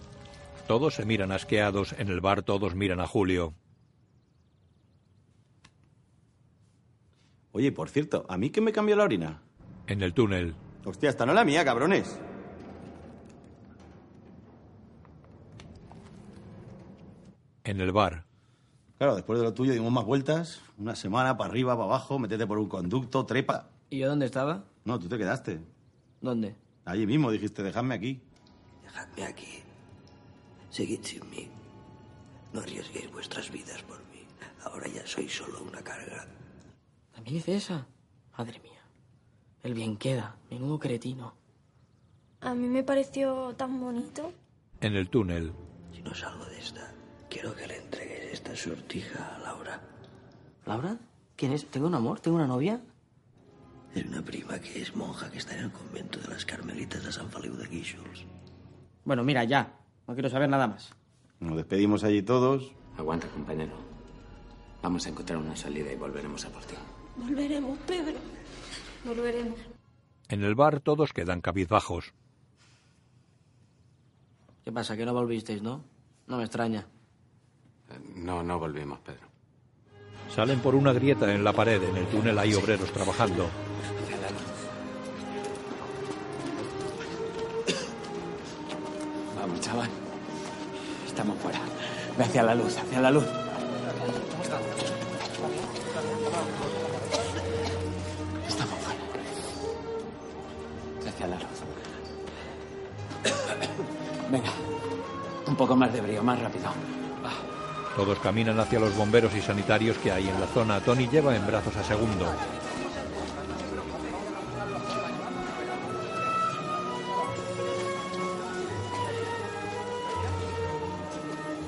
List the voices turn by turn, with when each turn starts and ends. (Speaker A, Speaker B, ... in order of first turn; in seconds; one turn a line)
Speaker A: 0.7-3.5
Speaker B: 7.5-9.4
Speaker A: 9.9-10.6
Speaker B: 10.8-12.2
Speaker A: 17.6-18.2
Speaker B: 19.0-23.7
Speaker C: 23.9-24.6
Speaker B: 24.9-25.6
Speaker C: 26.2-26.6
Speaker B: 26.9-28.2
Speaker D: 28.8-29.6
Speaker D: 30.7-31.5
Speaker D: 32.5-36.3
Speaker C: 37.1-38.8
Speaker C: 39.6-41.3
Speaker E: 42.4-44.3
Speaker A: 44.8-45.6
Speaker D: 45.9-49.8
Speaker C: 50.6-52.8
Speaker D: 53.9-58.3
Speaker C: 59.1-60.9
Speaker B: 61.4-62.7
Speaker F: 62.9-63.9
Speaker F: 64.8-66.8
Speaker E: 67.2-68.2
Speaker E: 69.0-69.6
Speaker A: 70.3-72.1
Speaker C: 74.6-76.9
Speaker F: 77.9-79.3
Speaker A: 80.3-83.5
Speaker F: 84.0-84.5
Speaker F: 89.3-89.9
Speaker F: 91.0-93.3
Speaker F: 98.4-99.2
Speaker F: 101.0-101.8
Speaker F: 104.3-104.6
Speaker F: 105.5-106.8
Speaker A: 107.9-112.4